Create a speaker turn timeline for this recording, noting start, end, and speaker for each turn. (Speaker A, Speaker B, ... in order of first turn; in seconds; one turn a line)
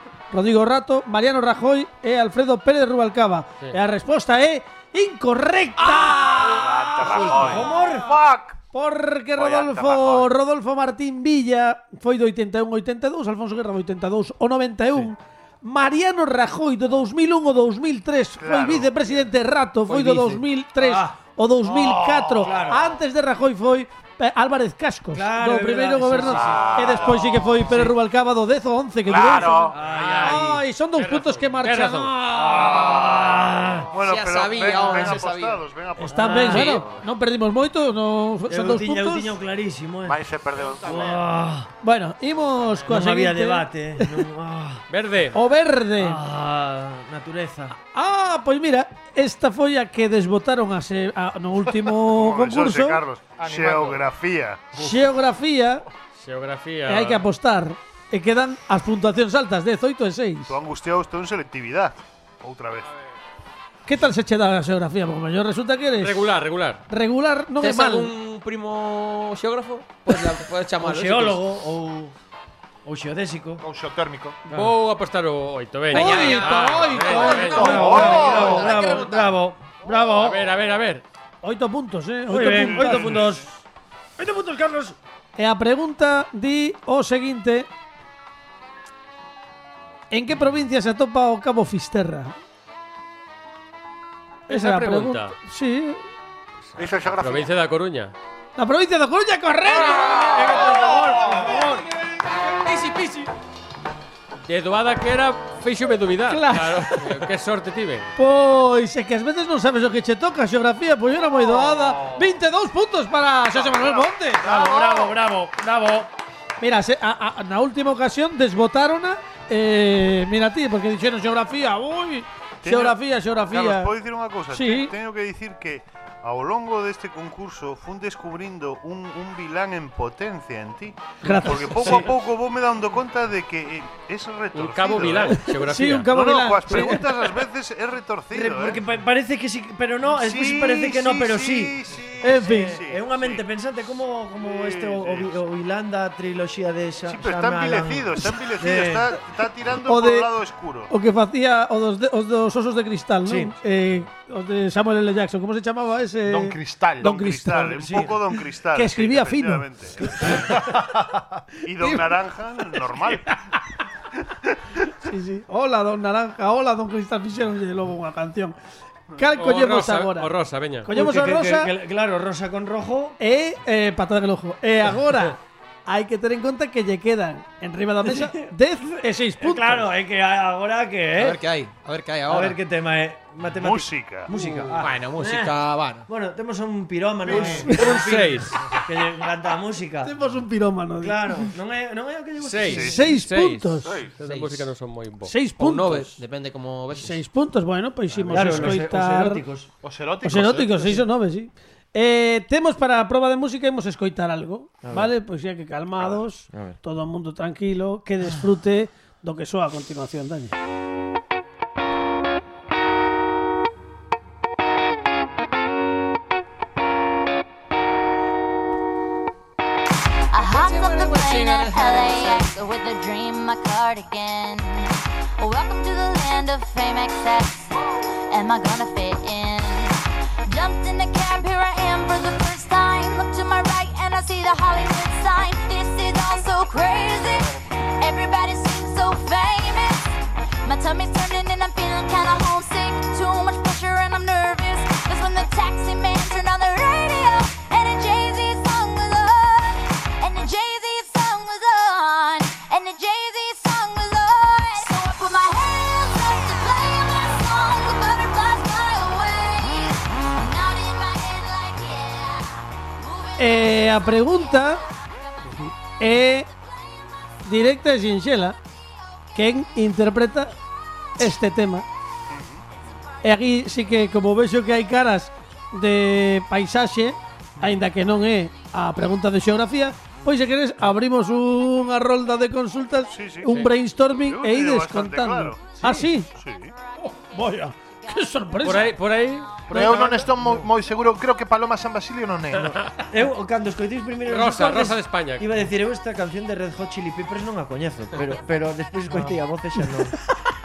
Speaker A: 0.3-7.9
Speaker B: 6.2-6.5
Speaker C: 6.3-8.4
Speaker B: 7.0-8.1
Speaker A: 8.7-32.7
Speaker C: 9.4-10.3
Speaker D: 18.4-18.9
Speaker B: 20.8-22.9
Speaker B: 25.1-27.1
Speaker C: 26.3-27.6
Speaker B: 27.7-27.9
Speaker C: 29.1-29.8
Speaker B: 29.6-30.6
Speaker E: 31.0-32.1
Speaker B: 32.3-33.9
Speaker D: 33.9-36.8
Speaker F: 34.0-35.6
Speaker A: 36.0-39.3
Speaker B: 36.1-36.8
Speaker B: 38.5-40.2
Speaker C: 40.0-41.2
Speaker B: 40.8-41.7
Speaker A: 41.8-44.2
Speaker B: 42.8-44.8
Speaker E: 44.9-45.4
Speaker A: 45.3-46.2
Speaker B: 46.0-47.7
Speaker A: 47.9-53.0
Speaker D: 52.0-54.7
Speaker G: 53.4-54.0
Speaker A: 54.7-55.8
Speaker E: 56.1-57.2
Speaker A: 56.9-60.5
Speaker D: 60.5-62.9
Speaker A: 63.9-66.2
Speaker E: 66.0-66.8
Speaker A: 66.9-68.1
Speaker F: 67.6-71.4
Speaker B: 70.8-72.1
Speaker B: 72.8-73.6
Speaker G: 73.6-74.4
Speaker B: 74.5-74.8
Speaker E: 74.5-77.9
Speaker A: 75.9-78.4
Speaker F: 75.9-79.3
Speaker B: 77.0-80.5
Speaker G: 77.8-78.8
Speaker E: 80.1-81.0
Speaker A: 81.4-83.3
Speaker B: 82.3-83.5
Speaker D: 82.6-83.4
Speaker B: 84.2-85.0
Speaker A: 85.4-87.7
Speaker A: 90.1-92.3
Speaker E: 94.5-95.3
Speaker A: 94.5-96.0
Speaker E: 96.7-98.1
Speaker C: 96.8-97.5
Speaker A: 98.6-101.7
Speaker F: 99.8-101.8
Speaker B: 100.1-101.7
Speaker F: 102.4-103.3
Speaker E: 104.5-108.1
Speaker A: 106.3-107.0
Speaker A: 108.2-114.5
Speaker D: 113.5-115.2
Speaker B: 114.4-116.1
Speaker G: 114.5-114.9
Speaker A: 116.6-123.9
Speaker D: 122.6-135.4
Speaker A: 124.5-124.9
Speaker A: 131.2-132.1
Speaker B: 131.8-132.1
Speaker E: 134.5-136.1
Speaker A: 135.4-137.1
Speaker D: 136.1-138.8
Speaker B: 138.3-149.2
Speaker D: 140.1-143.4
Speaker A: 142.2-142.8
Speaker D: 144.4-145.3
Speaker D: 147.1-150.9
Speaker A: 149.8-150.3
Speaker A: 150.9-158.1
Speaker B: 153.2-153.5
Speaker G: 156.2-157.1
Speaker D: 157.0-160.5
Speaker B: 157.8-158.2
Speaker A: 158.7-160.5
Speaker B: 160.0-160.5
Speaker D: 161.6-163.4
Speaker A: 161.8-162.1
Speaker A: 165.0-168.6
Speaker A: 169.2-170.3
Speaker E: 169.4-170.9
Speaker A: 170.8-171.7
Speaker B: 170.9-173.2
Speaker A: 173.2-179.9
Speaker B: 178.0-178.5
Speaker B: 179.4-181.4
Speaker F: 181.2-182.6
Speaker B: 182.3-190.1
Speaker D: 183.6-184.3
Speaker E: 184.3-184.8
Speaker F: 184.8-186.1
Speaker G: 187.3-187.6
Speaker A: 187.3-187.9
Speaker E: 187.7-188.7
Speaker A: 190.0-191.5
Speaker B: 191.0-193.0
Speaker E: 192.4-195.3
Speaker D: 192.7-193.0
Speaker A: 192.8-193.9
Speaker C: 193.8-194.1
Speaker F: 194.2-194.7
Speaker A: 195.2-196.2
Speaker F: 195.5-197.2
Speaker A: 197.0-199.4
Speaker B: 198.3-199.7
Speaker G: 199.8-201.0
Speaker A: 200.2-210.6
Speaker B: 204.8-205.1
Speaker B: 206.5-206.8
Speaker H: 220.3-227.7
Speaker F: 220.5-222.5
Speaker H: 228.3-263.9
Speaker A: 263.4-264.8
Speaker A: 265.6-266.5
Speaker A: 267.4-268.6
Speaker A: 269.3-270.5
Speaker A: 271.2-271.8
Speaker D: 272.3-272.7
Speaker A: 273.2-286.3
Speaker D: 283.1-285.7
Speaker B: 285.8-286.1
Speaker D: 286.3-286.7
Speaker H: 287.1-287.4
Speaker A: 287.2-288.9
Speaker H: 288.1-288.4
Speaker E: 288.6-289.8
Speaker G: 289.7-292.8
Speaker B: 289.7-290.7
Speaker A: 289.7-290.0
Speaker B: 292.7-300.2
Speaker E: 294.3-295.6